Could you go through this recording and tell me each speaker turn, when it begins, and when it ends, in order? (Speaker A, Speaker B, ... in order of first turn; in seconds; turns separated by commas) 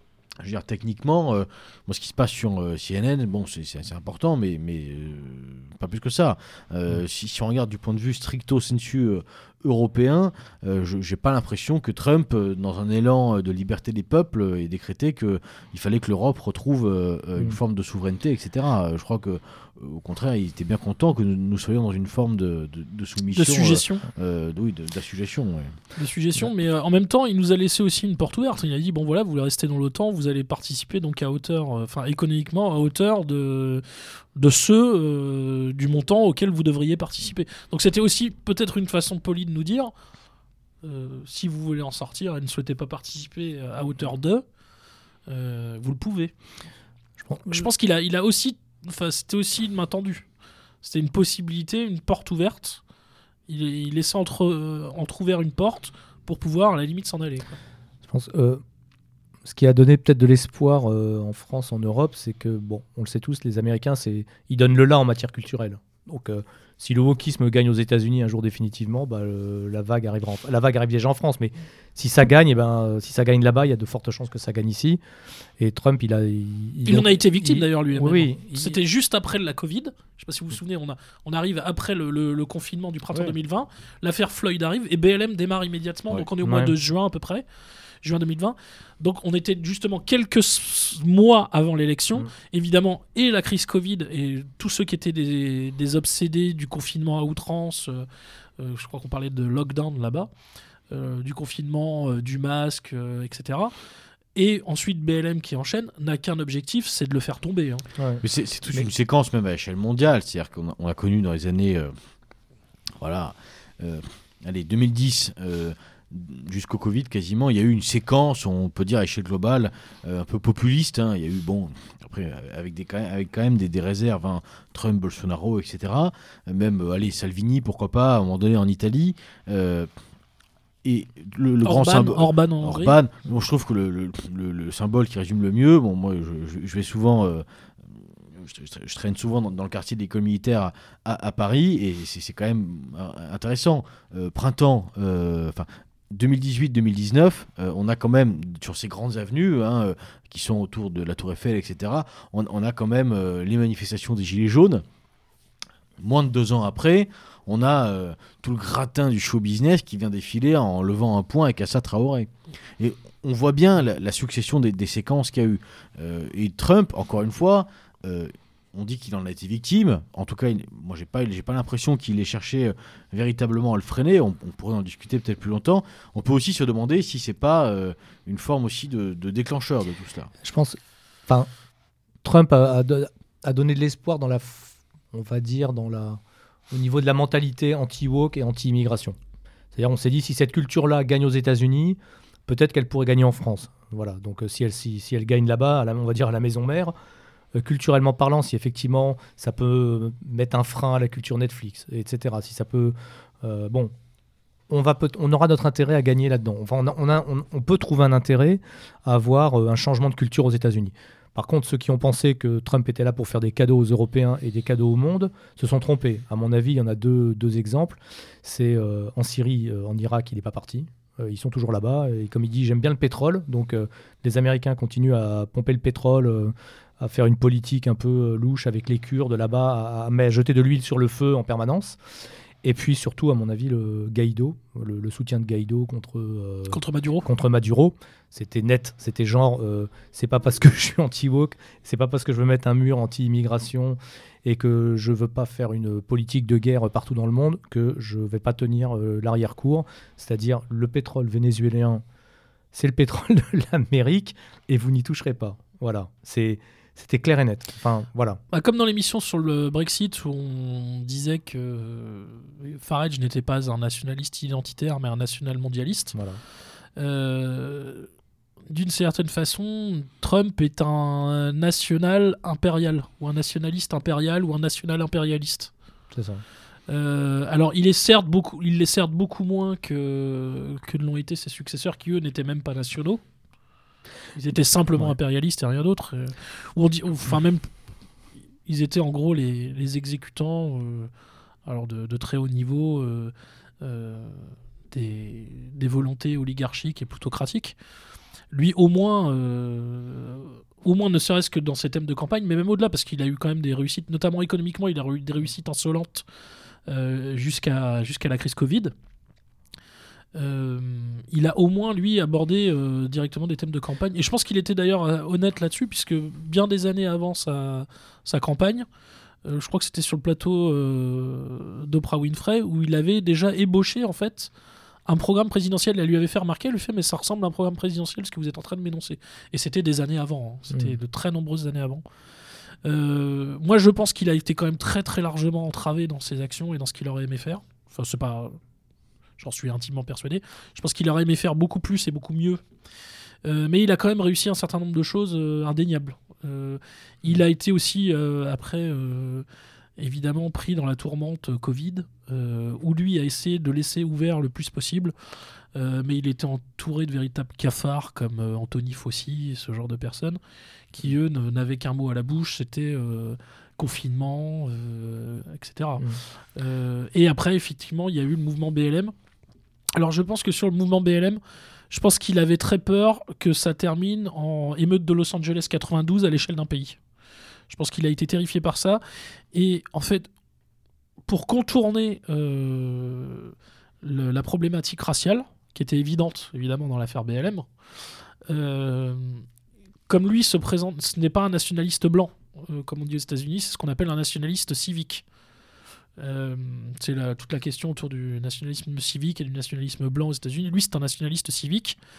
Speaker A: 0.4-25.8, Speaker B: 23.3-24.1, Speaker B: 26.0-39.9, Speaker B: 40.8-44.4, Speaker B: 45.3-46.3, Speaker C: 47.2-47.7, Speaker B: 47.5-50.3, Speaker B: 50.8-52.8, Speaker B: 53.5-57.6, Speaker C: 58.1-58.6, Speaker C: 59.5-75.0, Speaker C: 75.6-78.8, Speaker B: 76.9-87.5, Speaker C: 86.4-86.7, Speaker B: 88.0-100.3, Speaker B: 100.9-103.7, Speaker B: 104.3-107.9, Speaker C: 108.0-108.2, Speaker A: 108.2-111.9, Speaker A: 113.0-129.9, Speaker A: 130.8-137.4, Speaker B: 131.6-133.0, Speaker A: 138.0-154.8, Speaker A: 156.0-180.3, Speaker C: 180.4-181.5, Speaker C: 182.2-186.2, Speaker C: 186.7-189.2, Speaker C: 189.7-196.9, Speaker C: 197.6-203.9, Speaker C: 204.7-232.0, Speaker C: 232.6-252.0, Speaker B: 236.7-237.3, Speaker C: 252.7-258.4, Speaker B: 258.5-266.2, Speaker C: 266.1-266.4, Speaker B: 267.0-268.1, Speaker B: 268.7-275.7, Speaker C: 276.1-276.4, Speaker B: 276.9-283.2, Speaker B: 284.4-287.7, Speaker B: 288.7-291.1, Speaker B: 291.6-297.8, Speaker B: 298.5-306.2, Speaker B: 306.9-308.9, Speaker B: 310.4-318.9, Speaker B: 319.4-324.5, Speaker B: 325.1-332.0, Speaker B: 332.8-338.6, Speaker B: 339.4-342.6, Speaker B: 343.4-349.5, Speaker B: 350.0-355.1, Speaker B: 355.7-360.4, Speaker B: 360.9-369.1, Speaker B: 369.9-377.0, Speaker B: 377.7-379.0, Speaker B: 379.5-380.3, Speaker B: 381.3-387.7, Speaker B: 388.5-389.5, Speaker B: 390.1-395.2, Speaker B: 396.2-402.0